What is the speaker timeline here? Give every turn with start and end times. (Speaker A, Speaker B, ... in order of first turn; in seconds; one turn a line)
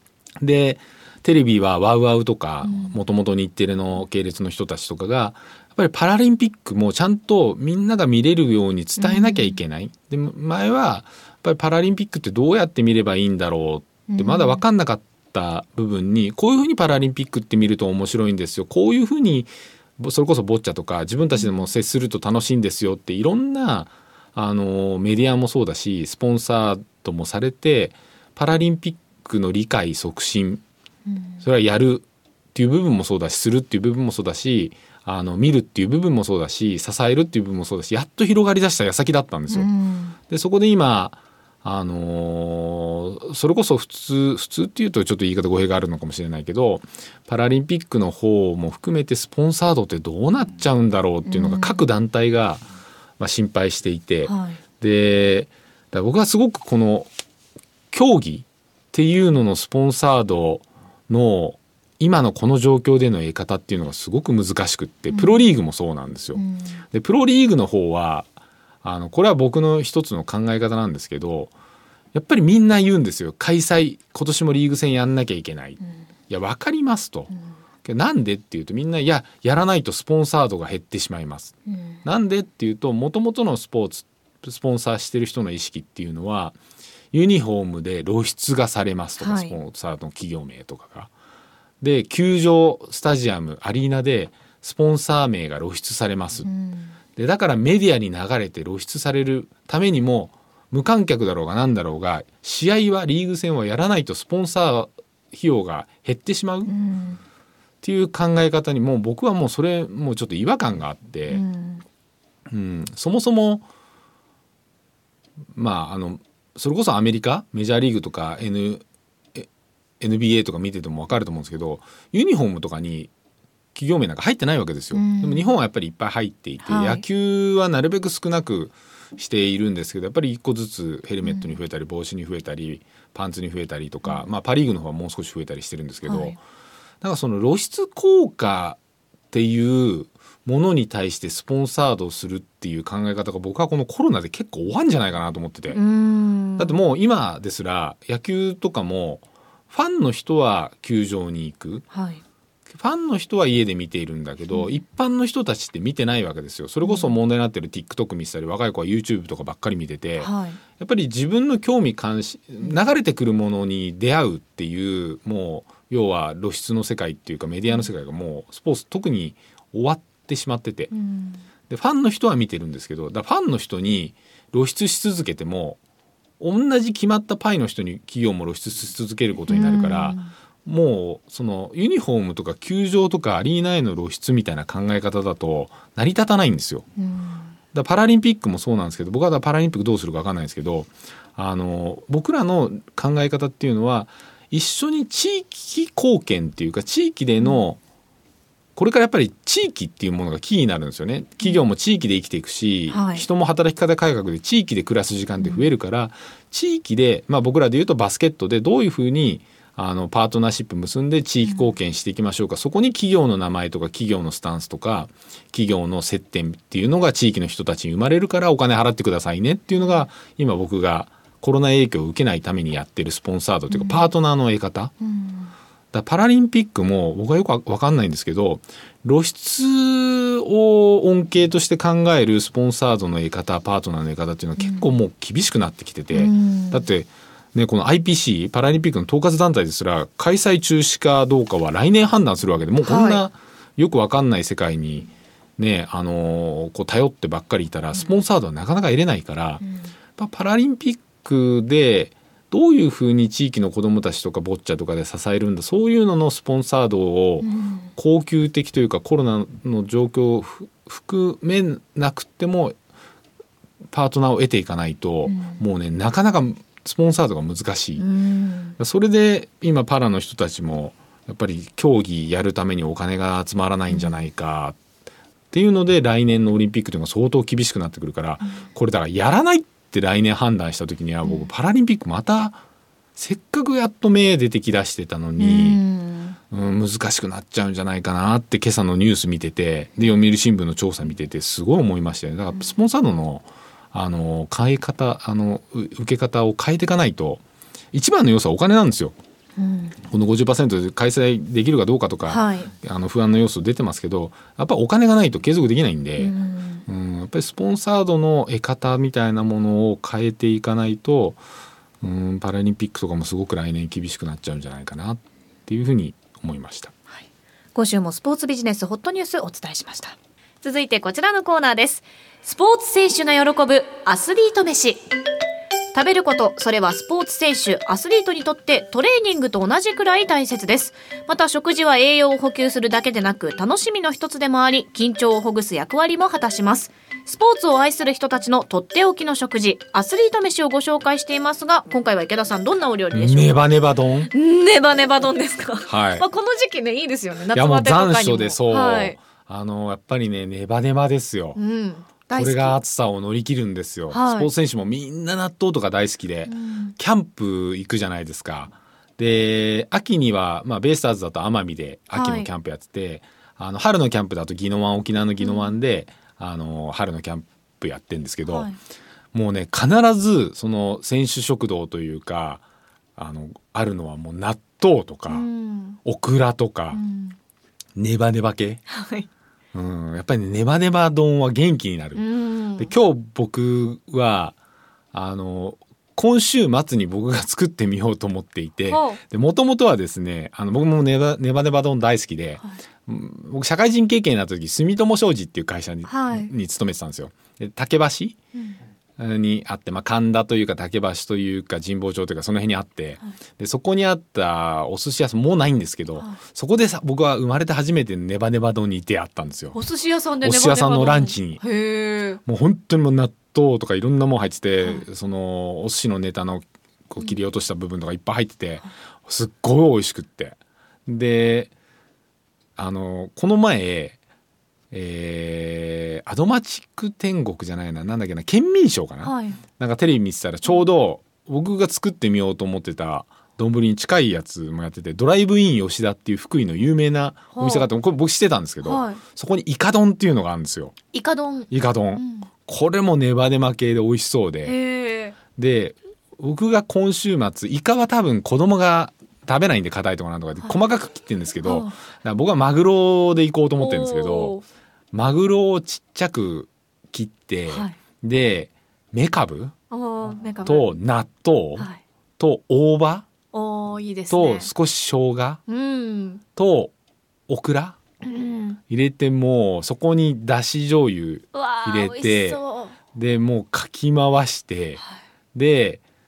Speaker A: 0.4-30.6
Speaker B: 2.6-3.0
Speaker B: 9.0-9.6
Speaker B: 14.1-14.6
Speaker B: 21.4-21.7
Speaker B: 31.1-31.4
Speaker A: 31.4-39.7
Speaker B: 39.5-40.2
Speaker A: 40.3-52.6
Speaker B: 51.2-51.9
Speaker A: 53.2-57.1
Speaker B: 54.3-54.6
Speaker A: 57.9-68.3
Speaker B: 65.1-65.4
Speaker B: 66.4-66.8
Speaker A: 68.8-71.5
Speaker A: 72.1-77.3
Speaker A: 77.8-81.5
Speaker B: 81.7-82.0
Speaker A: 82.0-86.6
Speaker A: 87.1-91.1
Speaker B: 89.2-89.6
Speaker A: 91.8-96.5
Speaker B: 96.5-96.9
Speaker A: 97.2-106.7
Speaker B: 106.7-107.2
Speaker A: 107.8-111.4
Speaker B: 111.3-111.8
Speaker A: 112.5-113.7
Speaker A: 115.5-118.8
Speaker A: 120.0-123.1
Speaker A: 123.7-136.4
Speaker B: 124.9-125.5
Speaker B: 126.6-127.0
Speaker B: 131.2-131.6
Speaker B: 136.1-136.4
Speaker A: 137.0-138.8
Speaker A: 139.3-145.8
Speaker B: 145.7-146.8
Speaker A: 146.6-151.8
Speaker B: 151.9-152.2
Speaker A: 152.7-170.9
Speaker B: 156.8-157.2
Speaker B: 160.2-160.6
Speaker B: 170.9-171.4
Speaker A: 171.7-175.8
Speaker A: 176.4-186.9
Speaker B: 179.5-180.3
Speaker B: 187.0-187.5
Speaker A: 187.7-197.8
Speaker B: 197.4-197.7
Speaker A: 198.8-224.9
Speaker B: 202.9-203.3
Speaker B: 205.4-205.7
Speaker B: 211.5-211.7
Speaker B: 219.7-220.1
Speaker B: 223.7-224.1
Speaker B: 225.0-225.5
Speaker A: 225.9-249.6
Speaker B: 234.6-234.9
Speaker B: 236.1-236.9
Speaker B: 242.8-243.2
Speaker B: 249.6-249.9
Speaker A: 250.2-262.8
Speaker B: 257.4-257.9
Speaker A: 263.9-268.0
Speaker B: 265.3-265.6
Speaker B: 268.0-268.8
Speaker A: 268.8-274.8
Speaker A: 275.5-282.6
Speaker B: 281.2-281.5
Speaker A: 283.2-285.8
Speaker B: 285.4-286.4
Speaker A: 286.5-297.4
Speaker A: 297.9-299.1
Speaker B: 299.6-300.0
Speaker A: 300.1-306.3
Speaker B: 302.3-302.7
Speaker B: 306.2-306.9
Speaker A: 306.9-311.4
Speaker A: 312.0-316.9
Speaker B: 317.1-325.1
Speaker B: 325.9-343.6
Speaker A: 343.1-344.3
Speaker B: 344.3-349.2
Speaker A: 345.9-346.2
Speaker A: 347.5-351.6
Speaker B: 351.6-352.8
Speaker A: 352.3-368.7
Speaker B: 354.1-354.5
Speaker B: 356.5-357.0
Speaker B: 362.1-362.5
Speaker B: 365.4-365.8
Speaker B: 368.4-368.8
Speaker A: 369.3-372.6
Speaker A: 373.2-375.5
Speaker B: 375.3-376.0
Speaker A: 376.0-377.0
Speaker B: 376.9-377.4
Speaker A: 378.0-378.8
Speaker B: 378.9-379.3
Speaker A: 379.7-382.2
Speaker B: 382.1-382.9
Speaker A: 382.8-384.6
Speaker A: 385.1-398.4
Speaker B: 388.9-389.2
Speaker B: 396.1-396.5
Speaker A: 399.2-409.8
Speaker B: 409.7-412.4
Speaker A: 410.4-411.6
Speaker A: 412.4-420.6
Speaker A: 421.1-421.7
Speaker A: 422.8-424.2
Speaker A: 424.9-441.0
Speaker B: 429.2-429.6
Speaker B: 437.6-437.9
Speaker B: 438.8-439.2
Speaker B: 441.1-442.5
Speaker A: 441.7-444.8
Speaker B: 444.6-445.4
Speaker A: 445.6-454.6
Speaker B: 451.6-451.9
Speaker B: 453.8-454.6
Speaker A: 455.1-459.8
Speaker B: 457.7-458.0
Speaker B: 459.9-460.9
Speaker A: 460.6-463.3
Speaker B: 463.5-464.7
Speaker A: 464.3-465.6
Speaker B: 465.7-466.4
Speaker A: 466.6-466.9
Speaker A: 467.5-468.0
Speaker B: 468.2-468.8
Speaker A: 468.9-472.6
Speaker B: 471.5-473.0
Speaker A: 473.1-475.0
Speaker A: 475.5-476.0